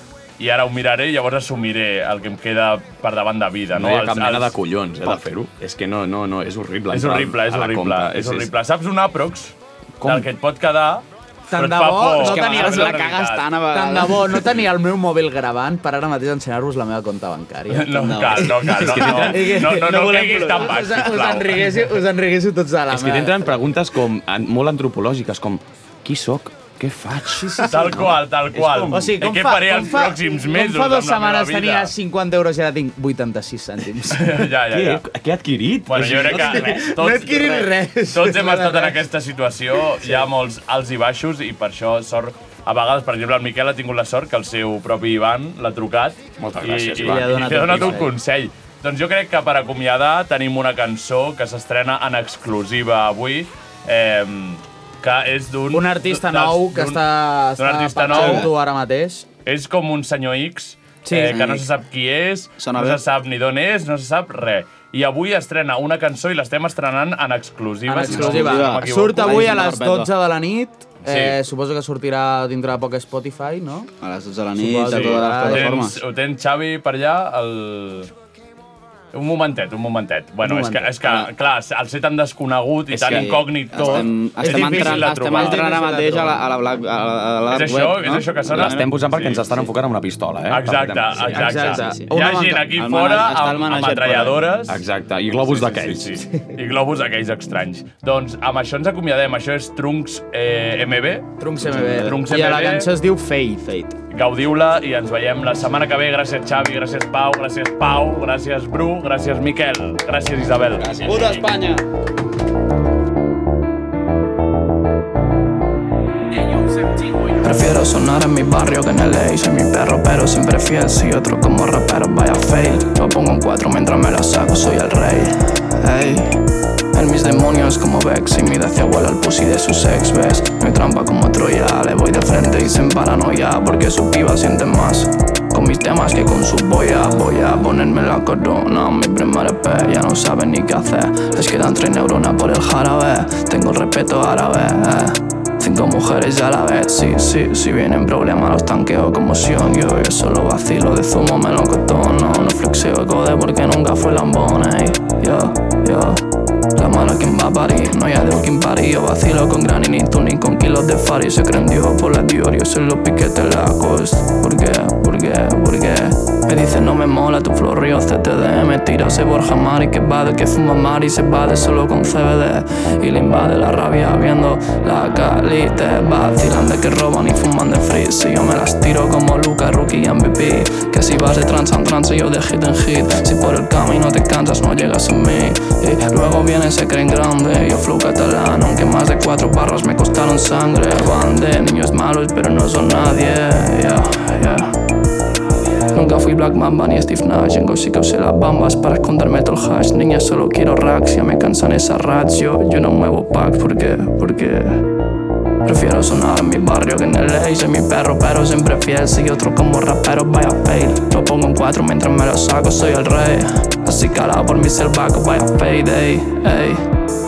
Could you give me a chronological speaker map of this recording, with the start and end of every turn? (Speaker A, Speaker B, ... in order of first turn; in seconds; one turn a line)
Speaker A: 0.4-4.5
Speaker B: 3.7-8.5
Speaker A: 6.9-13.5
Speaker B: 10.0-10.3
Speaker C: 11.5-18.1
Speaker D: 12.2-14.5
Speaker A: 17.7-21.9
Speaker D: 17.9-19.3
Speaker B: 18.6-19.6
Speaker C: 19.1-23.5
Speaker B: 22.9-29.1
Speaker C: 27.2-27.9
Speaker A: 27.7-31.9
Speaker C: 28.9-34.4
Speaker A: 34.1-35.0
Speaker B: 34.7-36.8
Speaker A: 35.9-58.5
Speaker C: 36.2-39.0
Speaker B: 46.4-48.1
Speaker C: 47.0-48.1
Speaker C: 55.7-59.2
Speaker D: 58.1-58.5
Speaker A: 59.4-69.8
Speaker C: 61.0-61.4
Speaker D: 61.1-61.7
Speaker D: 62.6-63.0
Speaker C: 67.8-73.9
Speaker D: 68.0-70.1
Speaker A: 71.0-71.4
Speaker D: 74.0-76.0
Speaker C: 74.5-75.8
Speaker A: 74.9-78.1
Speaker A: 79.1-85.7
Speaker C: 80.4-80.9
Speaker D: 81.0-81.3
Speaker D: 82.9-89.0
Speaker C: 83.8-86.4
Speaker A: 87.5-89.4
Speaker B: 88.5-91.7
Speaker A: 90.5-94.8
Speaker C: 91.3-92.7
Speaker D: 91.4-92.0
Speaker D: 92.7-94.4
Speaker B: 94.7-96.2
Speaker A: 95.4-102.9
Speaker C: 101.4-103.7
Speaker D: 103.7-104.0
Speaker A: 104.1-111.0
Speaker C: 110.9-111.8
Speaker E: 117.4-126.3
Speaker E: 126.9-156.2
Speaker E: 156.8-194.7
Speaker E: 195.9-204.8
Speaker E: 205.6-216.8